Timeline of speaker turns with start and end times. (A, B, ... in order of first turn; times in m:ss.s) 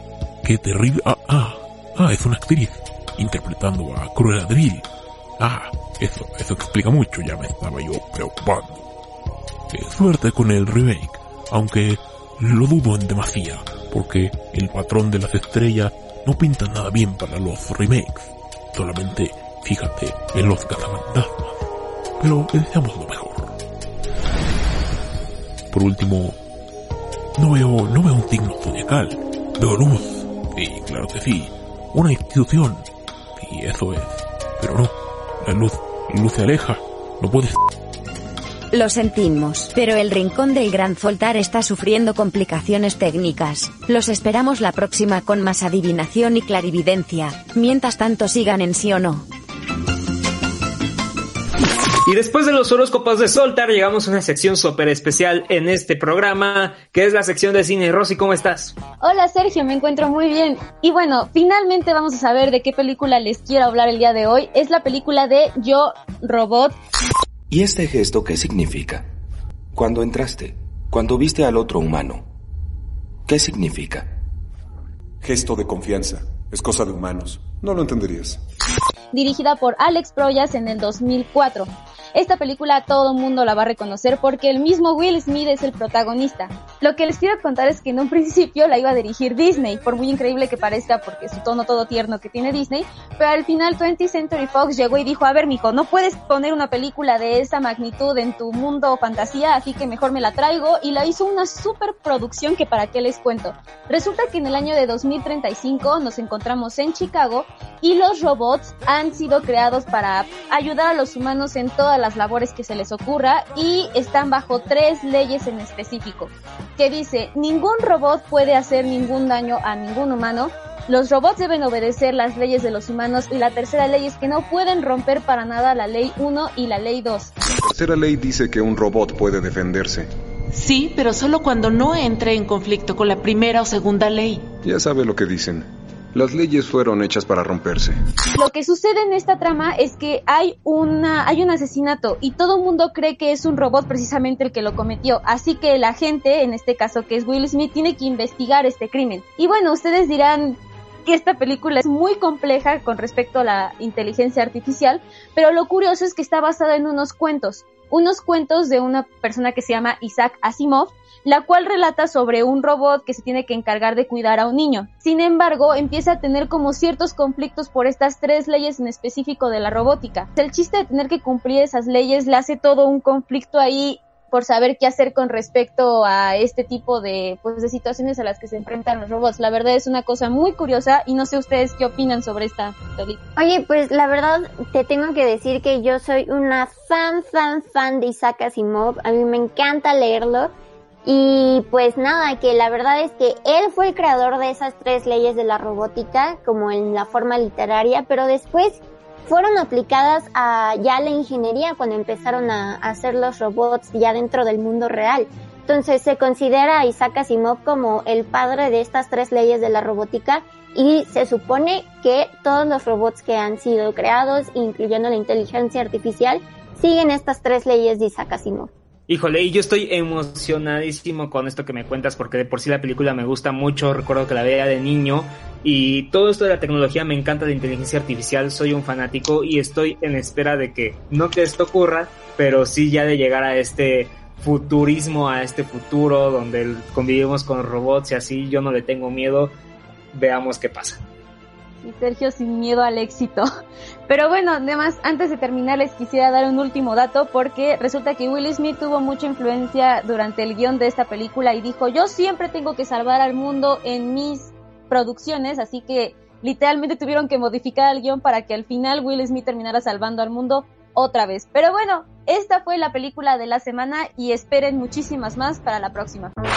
0:00.4-0:04.8 A
0:05.4-0:08.8 A
0:09.7-0:21.6 A
0:22.2-0:23.6 A
0:25.7-0:26.4 A
0:27.4-0:32.8 A
0:33.4-0:37.6 A
0:38.7-0:49.2 B
0:52.0-0:58.7 C
0:59.0-1:06.8 D
1:07.5-1:09.0 E
1:09.7-1:12.2 E
1:13.3-1:14.1 E
1:15.2-1:18.4 F
1:19.1-2:07.3 D
2:07.6-2:10.1 F
2:10.5-2:14.5 G
2:14.6-2:18.0 F
2:18.3-3:03.2 D
3:03.4-3:10.5 H
3:11.0-3:38.7 H
3:39.1-3:59.5 C
4:00.1-4:01.0 C
4:01.8-4:03.5 D
4:04.1-4:26.3 D